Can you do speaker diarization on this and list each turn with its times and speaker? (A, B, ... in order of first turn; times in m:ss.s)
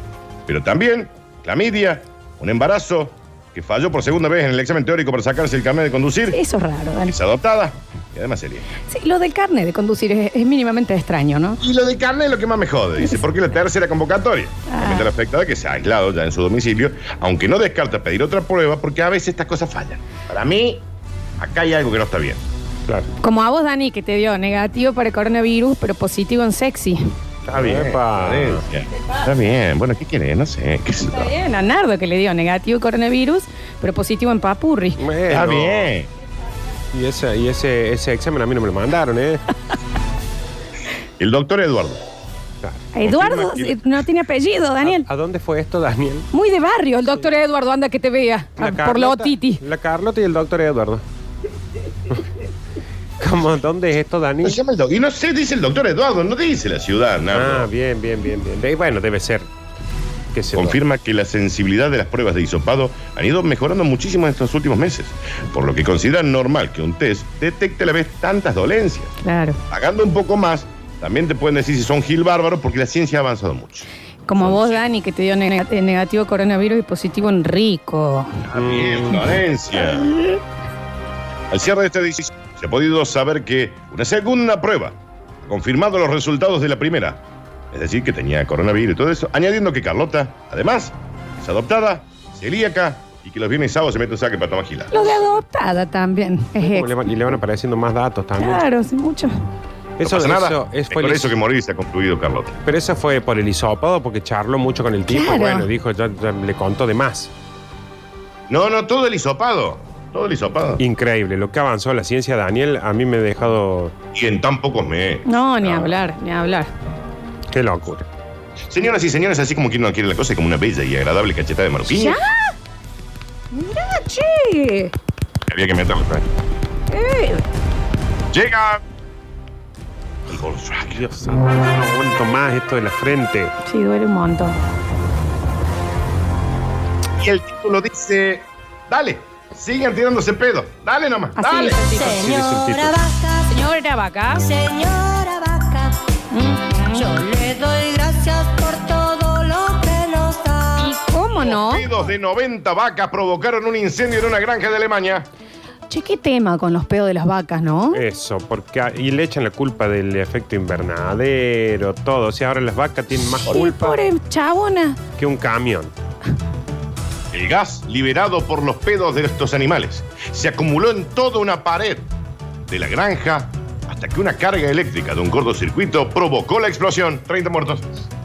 0:00.5-0:06.4 A
0:06.3-0:07.1 B
0:07.0-0:08.7 A
0:08.9-0:11.6 B
0:11.6-0:20.8 A
0:14.7-0:15.1 B
0:21.4-0:22.4 A
0:23.2-0:27.0 B
0:27.5-0:31.3 A
0:27.5-0:28.6 C
0:31.0-0:35.0 B
0:35.0-0:35.9 C
0:35.3-0:36.1 A
0:36.9-0:39.4 C
0:41.2-0:42.0 A
0:42.6-0:44.0 C
0:42.9-0:45.1 B
0:44.8-0:46.3 C
0:46.3-0:49.6 B
0:48.6-0:51.0 C
0:53.2-0:54.6 C
0:54.4-0:57.7 A
0:57.3-0:59.5 C
1:00.3-1:00.8 C
1:00.5-1:09.1 A
1:09.2-1:09.6 B
1:09.7-1:14.8 A
1:14.2-1:18.4 B
1:18.5-1:20.1 A
1:18.5-1:19.3 C
1:19.9-1:20.4 B
1:21.5-1:34.9 A
1:34.9-1:36.9 B
1:36.6-1:38.7 C
1:38.4-1:39.3 B
1:40.0-1:41.4 C
1:40.0-1:42.6 A
1:42.6-1:47.3 C
1:45.1-1:45.7 B
1:48.5-1:50.8 A
1:50.8-1:53.9 C
1:54.1-1:55.9 A
1:55.2-1:56.7 B
1:57.5-1:58.0 C
1:58.7-2:02.2 A
2:01.9-2:02.5 B
2:03.5-2:04.9 B
2:05.5-2:06.2 A
2:06.9-2:07.4 B
2:08.3-2:08.8 A
2:10.3-2:11.0 A
2:10.9-2:13.5 C
2:13.6-2:14.6 B
2:17.2-2:21.8 A
2:21.4-2:22.2 B
2:21.8-2:23.6 D
2:22.0-2:23.0 C
2:23.5-2:24.4 B
2:24.4-2:26.0 D
2:26.3-2:27.0 B
2:26.9-2:30.9 D
2:30.8-2:31.9 B
2:31.3-2:35.3 A
2:35.9-2:38.0 B
2:37.9-2:44.0 C
2:43.4-2:45.0 B
2:45.2-2:45.9 C
2:47.3-2:52.1 A
2:52.7-2:57.8 A